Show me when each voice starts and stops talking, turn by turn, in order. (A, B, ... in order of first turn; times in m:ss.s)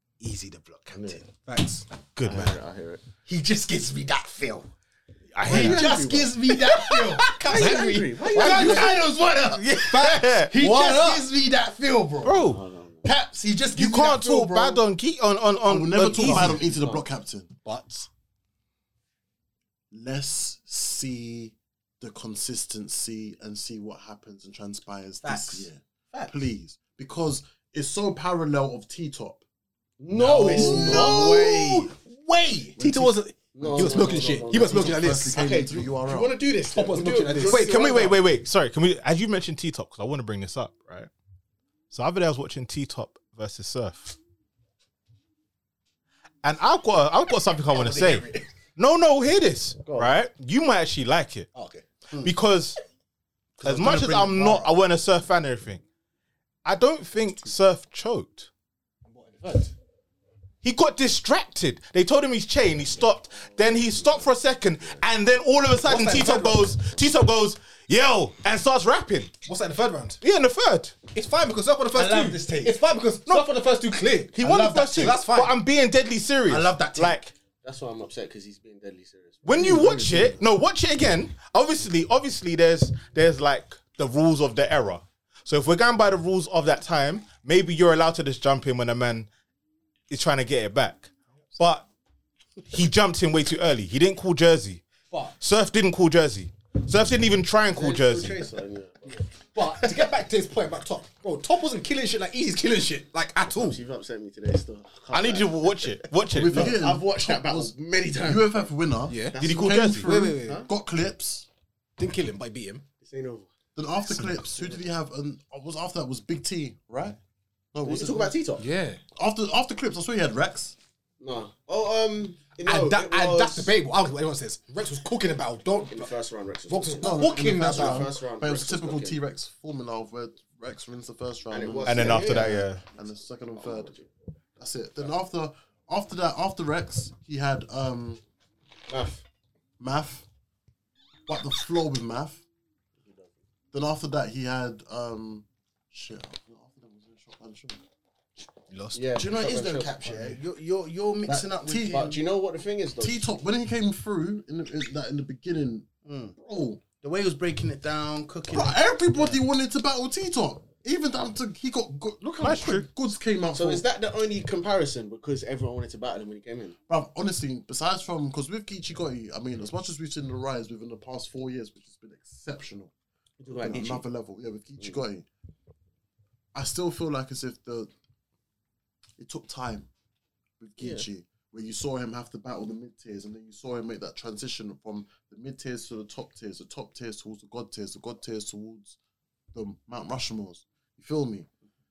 0:00.2-0:01.3 A
0:00.9-0:01.2 B
0:01.5-0:01.8 C
0:02.2-0:02.6 D
0:02.2-0:03.0 B
0:03.2-0:04.7 A
0:05.3-0:06.1 D
0:05.4-0:12.5 A
0:05.4-0:06.3 B
0:06.9-0:07.5 D
0:07.3-0:09.0 B
0:07.5-0:08.9 C
0:08.4-0:11.2 D
0:12.2-0:12.6 D
0:12.4-0:13.0 B
0:13.0-0:14.8 A
0:13.7-0:16.6 D
0:15.6-0:17.5 E
0:16.2-0:16.6 C
0:16.6-0:17.0 B
0:17.6-0:18.1 C
0:19.9-0:29.4 E
0:25.2-0:26.3 A
0:30.0-0:31.8 B
0:30.1-0:31.9 E
0:30.2-0:31.4 C
0:30.4-0:32.3 A
0:32.5-0:35.6 C
0:32.8-0:36.4 E
0:33.5-0:38.2 B
0:36.7-0:38.2 C
0:37.4-0:41.1 D
0:41.9-0:44.2 D
0:46.4-0:51.5 D
0:47.7-0:48.4 C
0:49.8-0:50.1 B
0:51.5-0:51.8 C
0:52.2-0:52.8 D
0:53.6-0:54.6 A
0:53.6-0:55.8 D
0:56.6-0:58.5 D
0:59.0-0:59.7 C
1:00.6-1:09.3 D
1:05.8-1:06.8 C
1:09.4-1:10.2 C
1:10.2-1:11.0 D
1:11.1-1:15.6 C
1:11.9-1:12.8 A
1:14.3-1:17.3 D
1:14.4-1:15.1 A
1:16.5-1:17.2 A
1:17.6-1:19.8 B
1:19.4-1:29.3 D
1:19.6-1:20.4 E
1:30.1-1:31.8 D
1:32.7-1:34.8 D
1:35.4-1:38.4 D
1:37.7-1:40.1 B
1:39.1-1:43.8 C
1:43.5-1:48.7 B
1:45.1-1:46.8 D
1:46.3-1:51.5 E
1:49.1-1:49.4 C
1:49.3-1:50.7 B
1:49.4-1:50.1 D
1:50.0-1:50.6 C
1:52.0-1:52.8 C
1:53.0-1:53.5 B
1:53.7-1:57.2 E
1:57.7-1:58.3 E
1:57.8-1:58.6 B
1:58.6-1:59.0 C
1:59.2-2:00.8 E
2:01.2-2:03.8 B
2:02.6-2:06.1 C
2:05.9-2:09.2 B
2:06.7-2:08.1 C
2:07.0-2:13.9 E
2:11.5-2:12.6 B
2:11.8-2:12.8 D
2:13.5-2:14.1 B
2:14.6-2:18.2 E
2:18.9-2:19.2 B
2:19.8-2:20.2 E
2:21.3-2:22.4 E
2:23.0-2:23.3 B
2:23.7-2:27.8 E
2:28.7-2:29.0 C
2:28.9-2:30.1 B
2:29.1-2:32.2 A
2:31.2-2:32.2 E
2:31.9-2:33.3 B
2:33.0-2:36.8 E
2:36.0-2:36.3 A
2:37.0-2:38.8 A
2:38.5-2:43.8 E
2:42.4-2:42.9 D
2:43.5-2:46.8 B
2:46.9-2:52.9 E
2:53.4-2:54.0 B
2:53.6-2:55.3 E
2:56.5-2:57.9 E
2:59.2-2:59.9 E
3:00.6-3:09.0 E
3:00.8-3:01.0 B
3:09.5-3:11.5 E